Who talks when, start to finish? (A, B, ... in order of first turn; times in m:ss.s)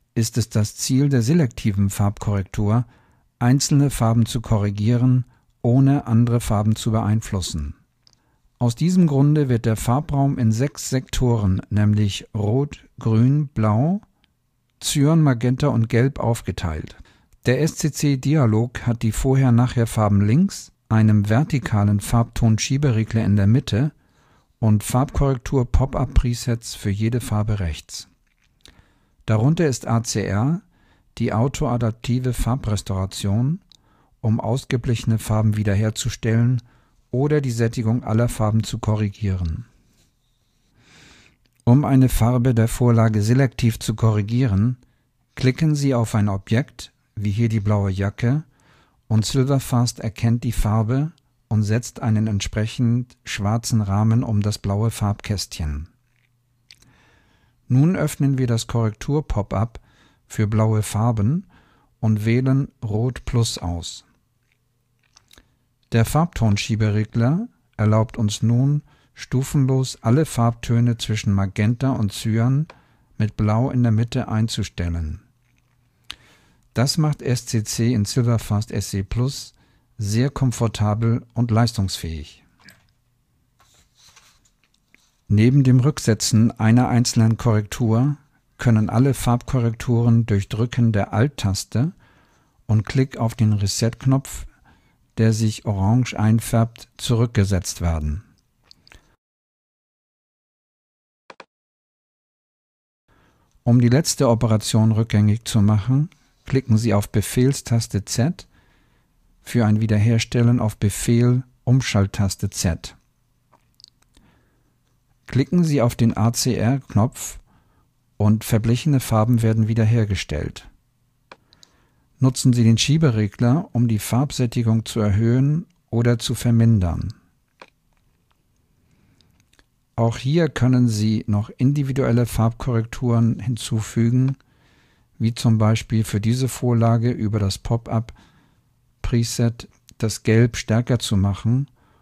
0:00.1-0:02.9 A
0:03.4-0:07.7 A
0:08.6-0:14.0 A
0:14.8-0:23.9 A
0:24.6-0:28.1 A
0:29.2-0:30.6 A
0:31.2-0:33.6 A
0:34.2-0:39.7 A
0:41.6-0:44.8 A
0:45.4-0:48.4 A
0:49.1-0:55.9 A
0:57.7-1:01.5 A
1:02.0-1:04.0 A
1:05.9-1:15.2 A
1:16.7-1:22.4 A
1:25.3-1:31.9 A
1:32.7-1:34.5 A
1:35.2-1:38.2 A
1:43.6-1:48.5 A
1:49.4-1:53.0 A
1:55.3-1:57.4 A
1:58.2-2:00.7 A
2:02.2-2:07.1 A
2:10.0-2:14.4 A
2:15.2-2:18.1 A
2:19.0-2:21.7 A